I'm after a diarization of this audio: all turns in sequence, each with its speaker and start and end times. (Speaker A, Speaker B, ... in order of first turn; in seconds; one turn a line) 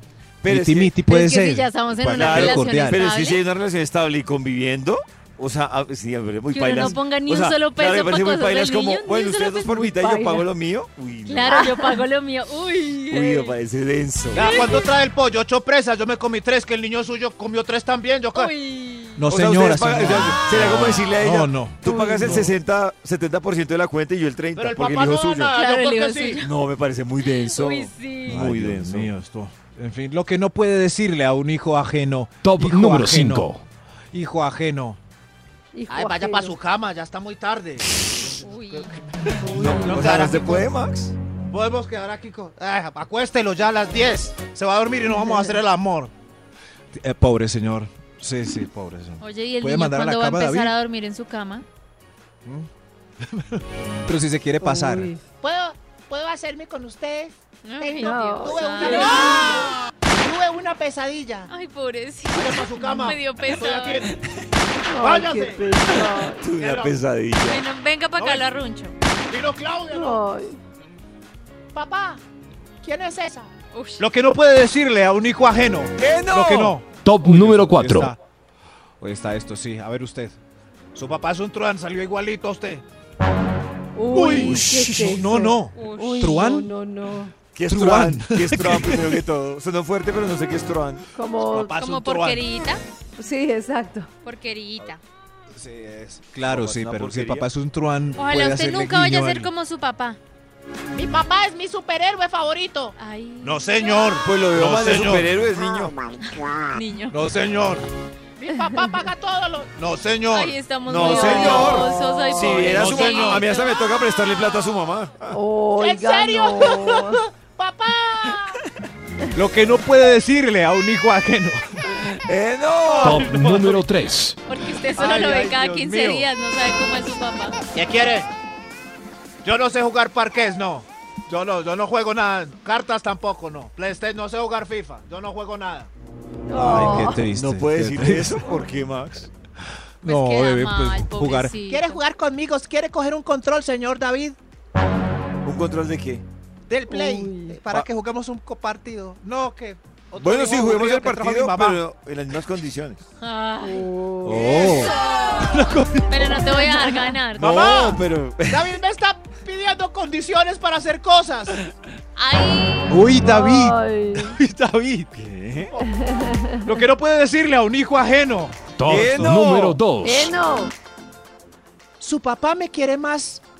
Speaker A: 0.4-0.9
Speaker B: 0.5-3.0
Speaker C: 1.1-3.4
Speaker A: 2.0-11.8
Speaker C: 6.5-10.4
Speaker C: 11.2-13.6
Speaker D: 11.5-12.0
Speaker A: 13.1-14.7
Speaker E: 14.3-18.5
Speaker C: 14.3-14.8
Speaker C: 18.3-19.2
Speaker B: 19.1-22.6
Speaker A: 19.3-25.5
Speaker E: 24.6-26.4
Speaker C: 25.5-26.5
Speaker A: 26.4-29.1
Speaker C: 27.2-28.4
Speaker B: 28.3-33.5
Speaker F: 32.4-33.6
Speaker B: 34.1-35.0
Speaker D: 35.7-36.6
Speaker E: 35.9-38.9
Speaker C: 38.4-38.9
Speaker A: 39.5-41.1
Speaker D: 39.5-39.9
Speaker E: 39.5-40.7
Speaker E: 41.5-46.1
Speaker D: 45.1-45.6
Speaker B: 46.9-50.7
Speaker C: 49.2-51.6
Speaker B: 53.2-55.1
Speaker D: 54.6-55.2
Speaker E: 55.4-61.5
Speaker C: 57.6-59.5
Speaker D: 58.0-59.4
Speaker C: 61.5-64.1
Speaker E: 62.3-64.1
Speaker D: 64.9-66.4
Speaker E: 65.0-65.8
Speaker A: 65.9-67.6
Speaker E: 66.5-67.0
Speaker C: 67.5-68.9
Speaker E: 68.2-68.4
Speaker E: 69.3-70.2
Speaker D: 69.9-70.6
Speaker E: 71.7-72.2
Speaker E: 72.8-73.5
Speaker C: 73.7-74.0
Speaker B: 74.0-78.2
Speaker A: 76.0-76.8
Speaker F: 76.9-78.1
Speaker B: 79.0-80.3
Speaker E: 80.9-82.8
Speaker D: 84.0-87.3
Speaker B: 84.1-86.7
Speaker C: 85.8-86.3
Speaker A: 87.5-91.0
Speaker B: 87.7-89.2
Speaker D: 91.2-91.8
Speaker B: 91.5-92.2
Speaker E: 91.7-92.3
Speaker C: 91.7-92.8
Speaker D: 93.2-94.1
Speaker C: 94.2-95.0
Speaker B: 95.5-99.5
Speaker A: 96.4-97.5
Speaker C: 98.2-100.2
Speaker E: 100.9-104.3
Speaker C: 103.0-104.2
Speaker A: 104.2-105.9
Speaker B: 104.5-105.2
Speaker E: 104.8-105.2
Speaker C: 106.3-107.2
Speaker B: 107.1-107.8
Speaker E: 107.2-107.8
Speaker E: 108.4-111.8
Speaker C: 110.3-114.0
Speaker A: 110.8-115.4
Speaker B: 111.1-111.5
Speaker E: 112.5-113.4
Speaker D: 115.3-117.2
Speaker E: 115.8-118.6
Speaker B: 119.3-121.8
Speaker A: 122.0-123.5
Speaker E: 122.9-123.8
Speaker F: 123.0-124.4
Speaker C: 124.5-127.5
Speaker B: 125.0-126.3
Speaker E: 125.1-125.5
Speaker E: 127.7-128.3
Speaker E: 129.4-135.9
Speaker D: 136.5-137.2
Speaker B: 136.5-138.6
Speaker A: 136.7-139.3
Speaker B: 140.0-141.6
Speaker C: 140.0-142.0
Speaker E: 141.7-144.4
Speaker A: 145.4-146.2
Speaker E: 146.7-151.8
Speaker D: 146.9-147.6
Speaker A: 150.2-153.0
Speaker C: 153.2-153.9
Speaker D: 153.6-154.8
Speaker B: 154.2-156.6
Speaker C: 154.6-155.5
Speaker C: 156.1-157.7
Speaker D: 156.6-157.0
Speaker A: 157.3-158.8
Speaker E: 157.4-161.6
Speaker C: 162.2-163.0
Speaker B: 162.9-165.1
Speaker D: 163.2-164.4
Speaker A: 165.1-165.8
Speaker D: 165.8-166.7
Speaker B: 166.6-168.6
Speaker F: 168.8-170.3
Speaker A: 168.9-169.8
Speaker D: 170.0-170.7
Speaker E: 172.0-173.4